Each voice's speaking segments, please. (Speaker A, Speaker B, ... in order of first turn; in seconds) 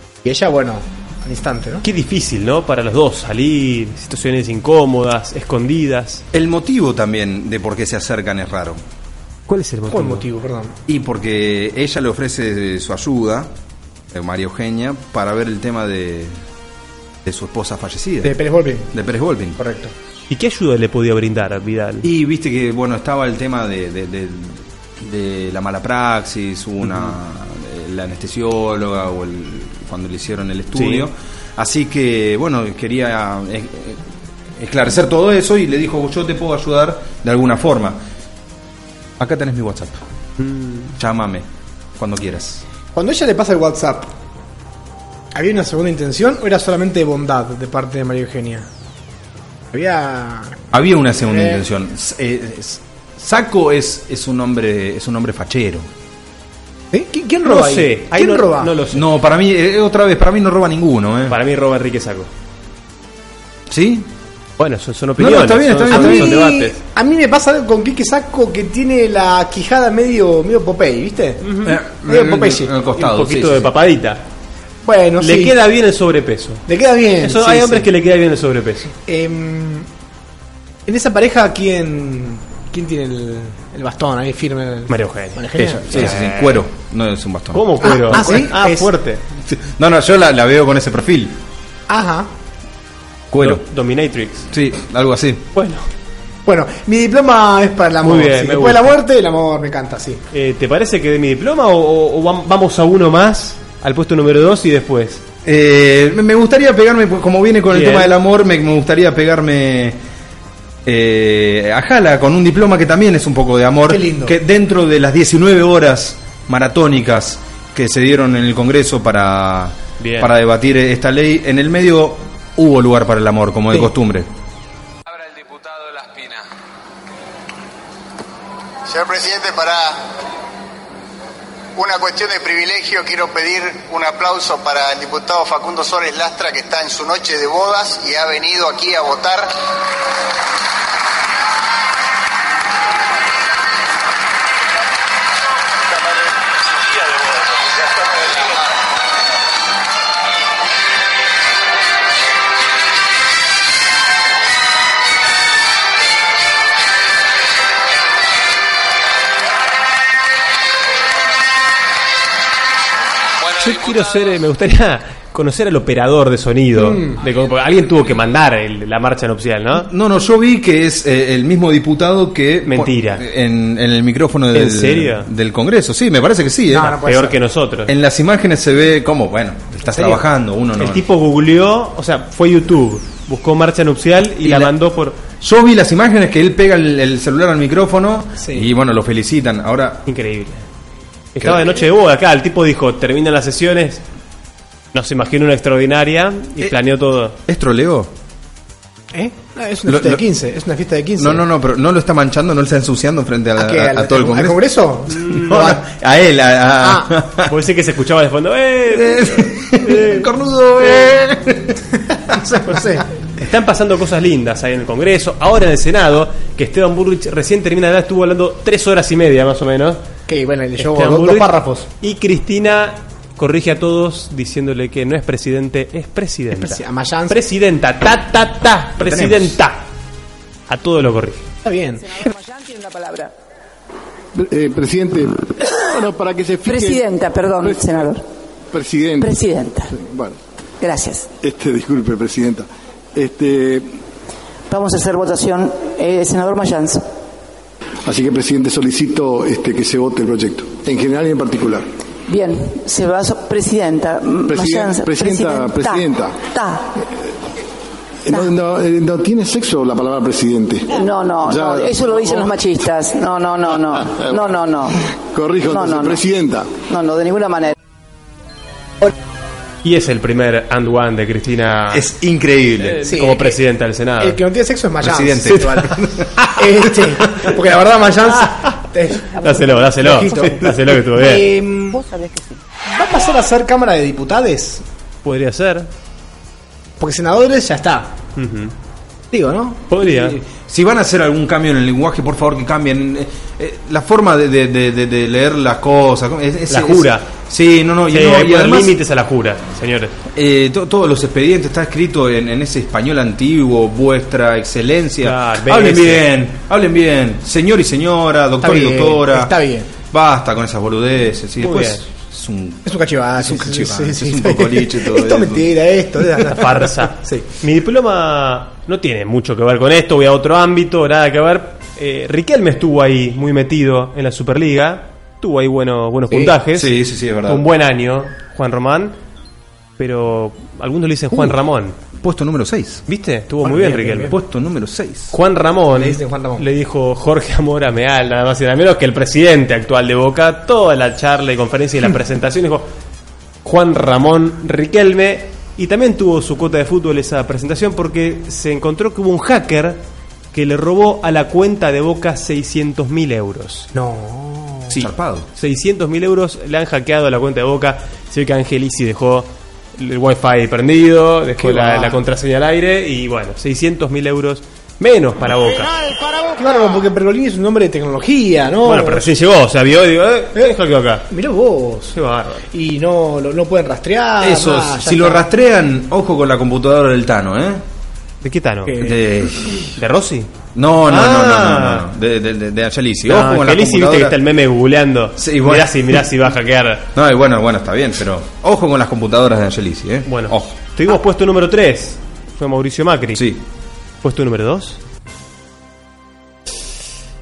Speaker A: 0.2-1.8, 9.9-10.8, 18.2-18.9, 19.6-19.9, 42.9-44.1, 45.3-48.7, 49.7-50.6, 51.3-51.6, 56.9-58.7, 65.9-72.7, 74.8-75.6, 76.7-77.9, 79.1-79.9, 80.9-86.1, 87.8-88.9, 91.9-92.3, 96.5-100.2, 113.9-114.4, 166.8-167.2, 176.7-177.4, 188.4-188.7, 199.1-201.4, 203.6-205.8, 206.8-207.1, 212.3-213.1, 220.3-221.9, 226.5-227.4, 231.7-232.0, 273.1-273.6, 274.2-282.0, 282.9-284.8, 287.0-288.1, 289.3-290.4, 308.6-309.9, 312.9-317.5, 333.6-334.4, 336.0-336.6, 353.9-355.0, 361.6-362.2, 366.6-369.3, 371.3-372.2, 372.7-375.4, 378.9-379.8
Speaker B: 1.8-6.2, 9.5-10.3, 20.3-22.1, 30.8-31.1, 40.4-40.9, 57.4-59.0, 61.3-62.3, 64.6-66.8, 71.4-71.8, 72.9-74.2, 75.2-76.7, 77.2-78.9, 84.9-86.6, 87.5-89.2, 93.4-94.5, 95.5-95.9, 98.0-99.0, 100.3-105.2, 107.7-108.1, 120.0-120.3, 163.6-169.9, 172.7-173.2, 174.5-175.3, 177.0-177.9, 179.9-180.2, 180.8-185.2, 190.1-190.6, 191.3-194.0, 194.9-197.4, 205.2-205.6, 207.5-210.3, 213.4-220.0, 220.8-221.5, 222.0-229.9, 230.7-231.4, 269.8-272.1, 272.8-274.4, 279.4-281.4, 285.2-285.9, 288.4-288.7, 289.9-290.4, 296.7-297.3, 298.1-300.1, 305.2-306.3, 311.6-312.0, 316.5-329.2, 330.0-332.0, 333.1-334.4, 335.3-342.9, 343.6-350.0, 350.5-353.9, 355.6-365.9, 368.9-371.3, 372.1-372.7, 378.4-379.0, 380.0-380.5, 381.1-382.1, 383.3-387.1, 390.3-393.5, 394.2-395.0
Speaker C: 6.3-8.8, 10.9-13.5, 14.1-16.4, 17.2-18.4, 18.9-19.6, 22.0-38.0, 39.2-40.0, 41.0-41.5, 42.0-42.6, 50.7-55.9, 58.9-61.4, 63.7-64.1, 65.2-66.5, 71.6-73.7, 85.6-88.4, 89.5-91.4, 93.3-93.6, 94.5-95.5, 105.5-110.0, 110.8-124.3, 169.8-177.0, 177.9-181.1, 184.4-184.7, 185.4-190.0, 191.4-191.8, 197.5-198.1, 199.9-200.2, 201.2-204.6, 205.2-207.5, 208.9-211.8, 229.0-229.6, 271.9-273.0, 275.0-276.3, 290.6-299.0, 300.4-309.6, 310.1-315.7, 326.7-327.6, 332.2-333.0, 334.3-335.3, 354.9-355.5, 374.4-377.8, 379.0-379.8, 380.8-384.4, 385.4-386.2, 387.1-390.7, 393.4-393.6
Speaker D: 125.1-126.5, 128.9-130.1, 131.8-139.6, 146.8-148.6, 163.4-164.1
Speaker E: 232.1-233.3, 236.7-238.2, 239.2-239.9, 240.8-241.3, 244.7-247.1, 252.3-256.9, 260.9-265.0, 265.7-266.1, 266.9-267.7, 282.0-282.5
Speaker F: 234.3-237.0, 237.6-238.1, 238.7-239.4, 239.9-240.4, 241.4-243.9, 248.1-251.9, 254.5-256.5, 258.3-260.9, 261.4-262.5, 265.2-266.8